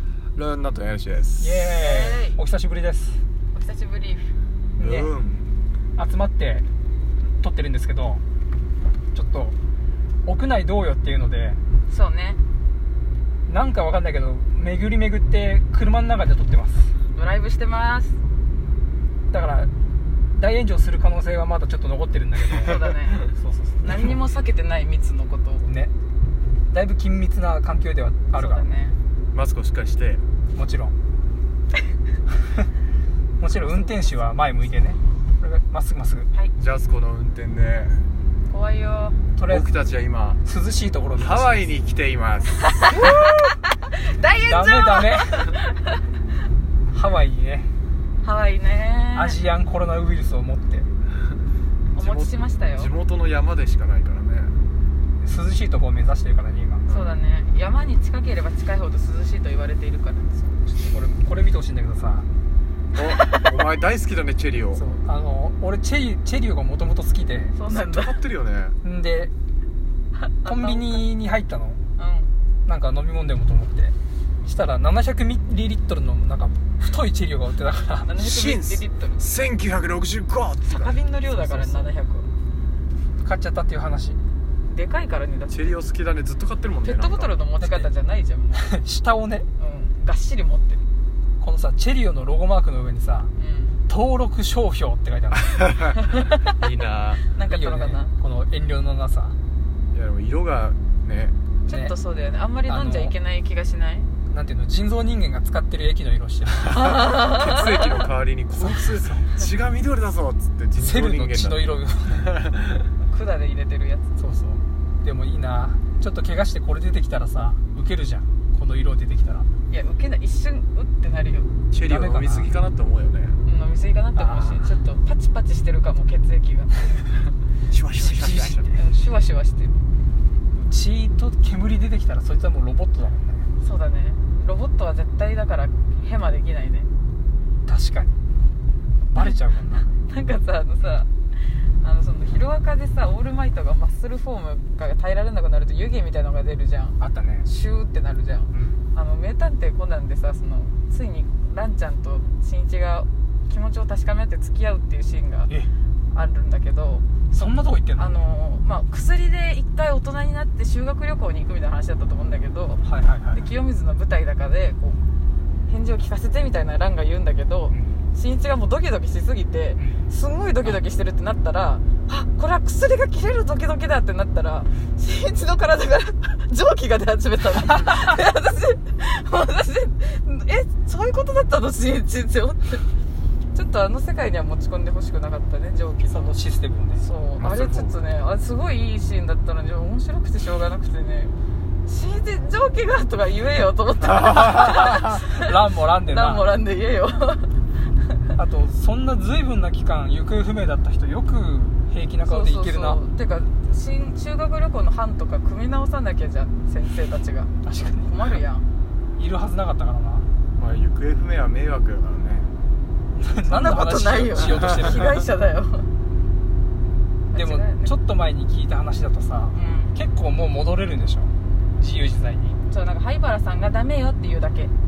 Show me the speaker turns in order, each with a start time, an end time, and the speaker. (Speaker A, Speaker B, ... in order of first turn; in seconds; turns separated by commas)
Speaker A: 0.3-1.8, Speaker B: 1.4-3.2, Speaker C: 1.8-2.4, Speaker C: 3.5-4.4, Speaker B: 4.8-5.1, Speaker A: 4.8-5.5, Speaker B: 6.0-6.7, Speaker B: 7.4-8.2, Speaker B: 9.1-9.6, Speaker B: 10.2-11.6, Speaker C: 11.9-12.4, Speaker B: 13.5-16.9, Speaker C: 17.1-18.2, Speaker B: 19.3-19.7, Speaker B: 20.3-24.1, Speaker C: 22.6-25.7, Speaker B: 25.6-25.9, Speaker B: 26.7-28.7, Speaker C: 28.3-29.0, Speaker A: 29.3-30.2, Speaker B: 30.5-30.9, Speaker B: 33.4-36.3, Speaker C: 33.5-34.3, Speaker A: 36.6-38.0, Speaker C: 38.5-39.2, Speaker B: 39.4-39.7, Speaker A: 39.5-40.4, Speaker B: 40.5-41.7, Speaker A: 41.1-42.8, Speaker C: 42.6-46.0, Speaker B: 44.5-45.4, Speaker B: 46.9-47.7, Speaker C: 48.2-49.4, Speaker B: 49.1-50.9, Speaker C: 52.0-52.9, Speaker A: 52.0-54.6, Speaker B: 55.2-56.8, Speaker A: 56.9-57.1, Speaker C: 56.9-60.4, Speaker B: 60.4-62.3, Speaker A: 62.9-64.8, Speaker B: 64.8-67.5, Speaker C: 67.5-68.2, Speaker A: 67.7-68.8, Speaker B: 68.8-69.3, Speaker C: 70.2-71.1, Speaker B: 70.5-71.8, Speaker C: 72.0-72.3, Speaker B: 72.7-78.1, Speaker C: 78.0-79.2, Speaker A: 78.2-81.0, Speaker C: 80.7-82.3, Speaker B: 81.3-81.9, Speaker B: 83.2-84.2, Speaker C: 84.7-85.8, Speaker A: 85.5-87.3, Speaker C: 86.8-88.8, Speaker B: 87.6-87.9, Speaker B: 88.6-89.5, Speaker C: 89.6-90.8, Speaker B: 91.4-93.3, Speaker C: 93.4-93.8, Speaker B: 93.9-95.7, Speaker A: 96.5-97.2, Speaker C: 97.3-98.1, Speaker B: 97.5-99.4, Speaker A: 99.9-101.3, Speaker C: 101.7-104.1, Speaker B: 101.7-101.9, Speaker B: 102.7-103.1, Speaker B: 104.3-106.9, Speaker A: 106.7-111.7, Speaker C: 106.7-107.9, Speaker B: 108.6-109.2, Speaker B: 110.8-112.4, Speaker A: 112.3-112.8, Speaker C: 113.1-114.1, Speaker B: 114.2-119.5, Speaker C: 119.7-121.5, Speaker A: 121.7-123.4, Speaker B: 121.9-122.5, Speaker C: 123.4-127.1, Speaker B: 124.2-124.7, Speaker A: 127.7-128.7, Speaker B: 128.0-128.8, Speaker C: 128.7-129.8, Speaker B: 130.5-133.5, Speaker C: 133.6-136.9, Speaker B: 137.7-138.1, Speaker B: 139.1-139.9, Speaker C: 139.1-155.5, Speaker B: 147.0-147.5, Speaker B: 148.5-148.8, Speaker C: 156.1-165.0, Speaker B: 157.3-158.2, Speaker B: 162.8-163.4, Speaker C: 165.7-182.8, Speaker C: 183.5-186.4, Speaker B: 186.1-187.0, Speaker C: 186.9-191.3, Speaker A: 187.3-187.9, Speaker C: 191.8-197.6, Speaker B: 194.4-196.5, Speaker B: 198.3-203.0, Speaker C: 202.2-208.7, Speaker B: 207.6-208.4, Speaker B: 209.2-210.3, Speaker A: 210.6-212.5, Speaker B: 213.1-215.2, Speaker C: 213.4-215.9, Speaker C: 217.3-217.9, Speaker B: 217.3-222.6, Speaker C: 219.5-219.9, Speaker C: 222.7-224.7